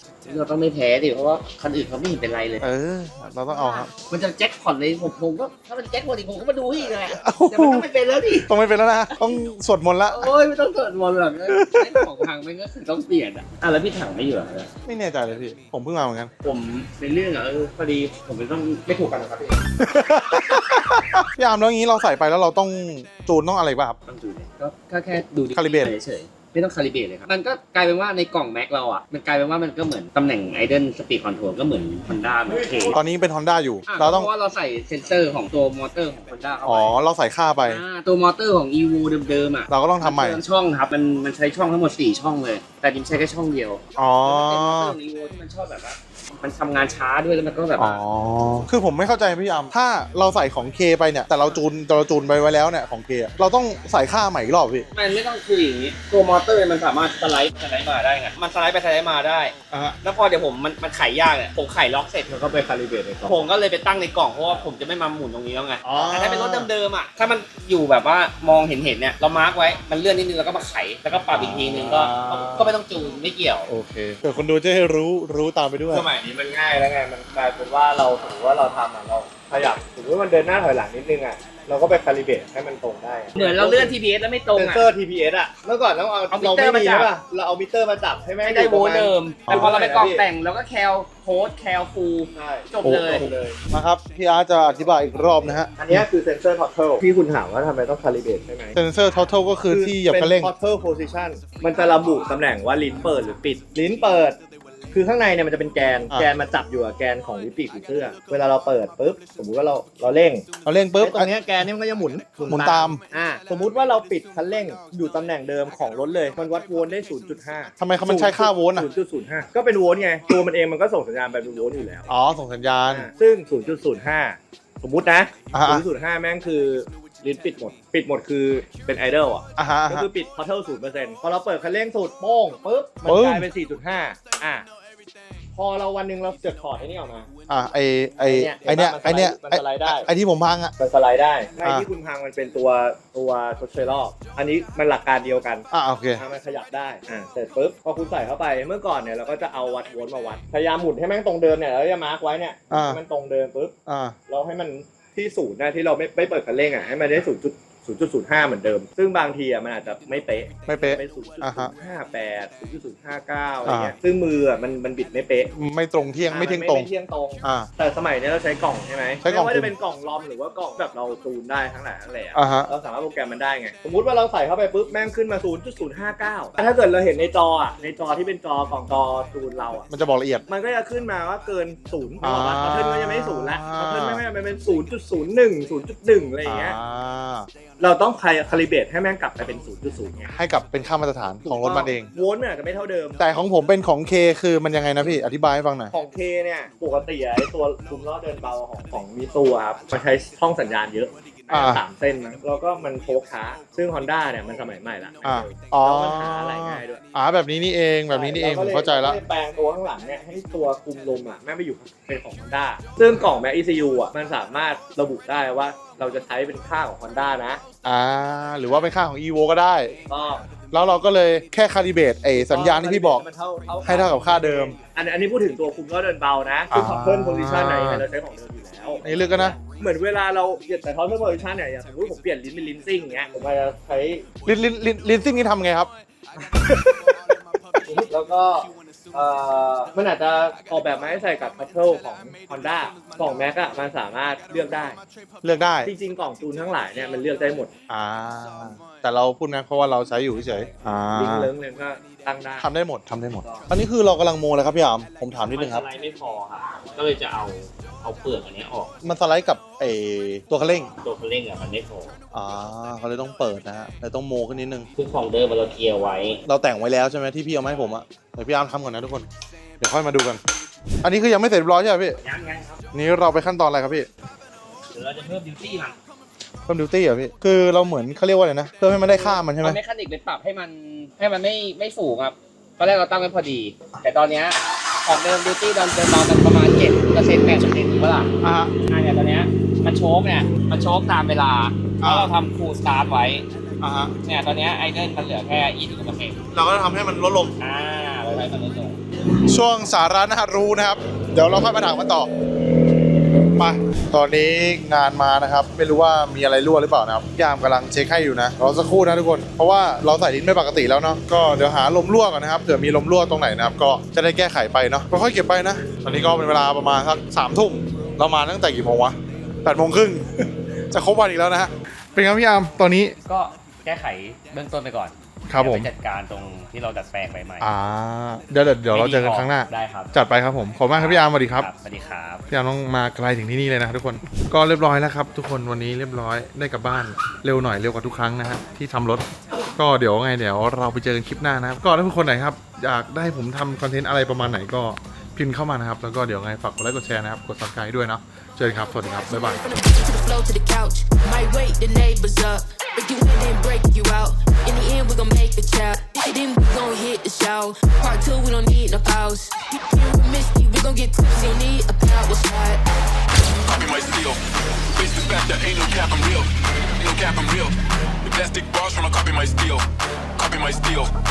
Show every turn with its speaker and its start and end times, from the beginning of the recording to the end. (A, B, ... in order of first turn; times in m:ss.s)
0:00.2-0:02.7 A
0:02.6-0:03.9 B
0:03.5-0:08.5 A
0:07.2-0:07.9 B
0:08.5-0:10.3 B
0:10.1-0:14.7 A
0:11.5-0:12.1 B
0:14.9-0:16.3 B
0:16.4-0:19.6 A
0:19.8-0:24.0 B
0:24.1-0:33.0 A
0:25.6-0:25.9 B
0:32.9-0:34.3 B
0:33.9-0:37.0 A
0:36.6-0:37.8 B
0:37.6-0:48.0 A
0:39.7-0:40.4 B
0:44.0-0:45.0 B
0:47.8-0:54.9 B
0:54.9-1:02.4 A
0:59.7-1:00.0 B
1:02.3-1:03.3 C
1:03.2-1:13.7 A
1:05.8-1:06.7 B
1:11.3-1:12.7 B
1:13.7-1:16.1 B
1:15.9-1:24.0 C
1:23.4-1:24.9 A
1:24.6-1:30.2 C
1:26.3-1:27.1 A
1:28.4-1:33.3 A
1:29.5-1:29.8 B
1:32.4-1:33.6 C
1:32.8-1:36.0 B
1:35.8-1:38.7 C
1:38.8-1:40.5 B
1:39.7-1:44.4 C
1:44.9-1:50.4 C
1:50.6-1:51.3 B
1:51.0-2:02.1 C
1:52.5-1:53.0 B
1:57.8-1:58.9 B
2:02.1-2:03.1 B
2:02.9-2:14.6 C
2:05.5-2:05.8 B
2:09.6-2:10.1 B
2:13.1-2:13.5 B
2:15.6-2:17.3 C
2:17.5-2:20.7 B
2:18.2-2:20.1 C
2:20.8-2:25.7 C
2:25.7-2:26.2 B
2:26.2-2:33.7 C
2:32.7-2:33.0 B
2:33.9-2:34.2 B
2:34.3-2:45.5 C
2:40.7-2:41.7 B
2:43.6-2:43.9 B
2:45.5-2:46.9 B
2:46.3-2:59.9 C
2:47.4-2:47.7 B
2:49.2-2:49.7 B
2:52.3-2:52.7 B
2:59.9-3:00.4 B
3:00.5-3:06.8 C
3:02.2-3:04.2 B
3:06.4-3:07.5 B
3:07.8-3:10.3 C
3:10.3-3:12.1 B
3:11.4-3:13.2 C
3:13.2-3:15.9 B
3:15.9-3:27.0 C
3:21.5-3:21.8 B
3:25.2-3:29.2 B
3:28.1-3:37.6 C
3:37.8-3:40.0 B
3:40.1-3:40.5 C
3:40.7-3:43.2 B
3:42.4-3:54.2 C
3:43.8-3:44.8 B
3:46.7-3:48.0 B
3:49.0-3:49.6 B
3:54.5-3:55.9 B
3:56.7-3:57.2 B
3:57.8-4:05.0 C
4:05.4-4:05.9 B
4:05.8-4:07.7 C
4:07.9-4:11.5 B
4:11.1-4:12.7 C
4:12.6-4:15.8 B
4:15.5-4:18.9 A
4:19.0-4:20.9 B
4:21.0-4:22.2 A
4:22.3-4:24.9 B
4:25.0-4:26.4 A
4:26.5-4:29.3 B
4:29.8-4:30.4 B
4:31.0-4:32.2 B
4:32.2-4:32.8 A
4:32.9-4:34.1 B
4:34.9-4:36.0 A
4:36.7-4:39.8 B
4:39.0-4:48.3 A
4:48.4-4:48.7 B
4:48.9-4:53.4 A
4:52.0-4:52.3 B
4:53.8-4:54.1 B
4:54.2-4:56.4 A
4:56.5-4:57.5 B
4:57.6-4:59.0 A
4:59.5-5:02.3 B
5:03.6-5:23.2 B
5:23.3-5:27.7 A
5:25.5-5:25.9 B
5:27.6-5:31.7 B
5:28.9-5:30.1 A
5:30.9-5:32.4 A
5:32.5-5:39.2 B
5:39.8-5:49.6 B
5:49.3-6:02.8 D
6:03.6-6:04.4 E
6:05.0-6:11.1 E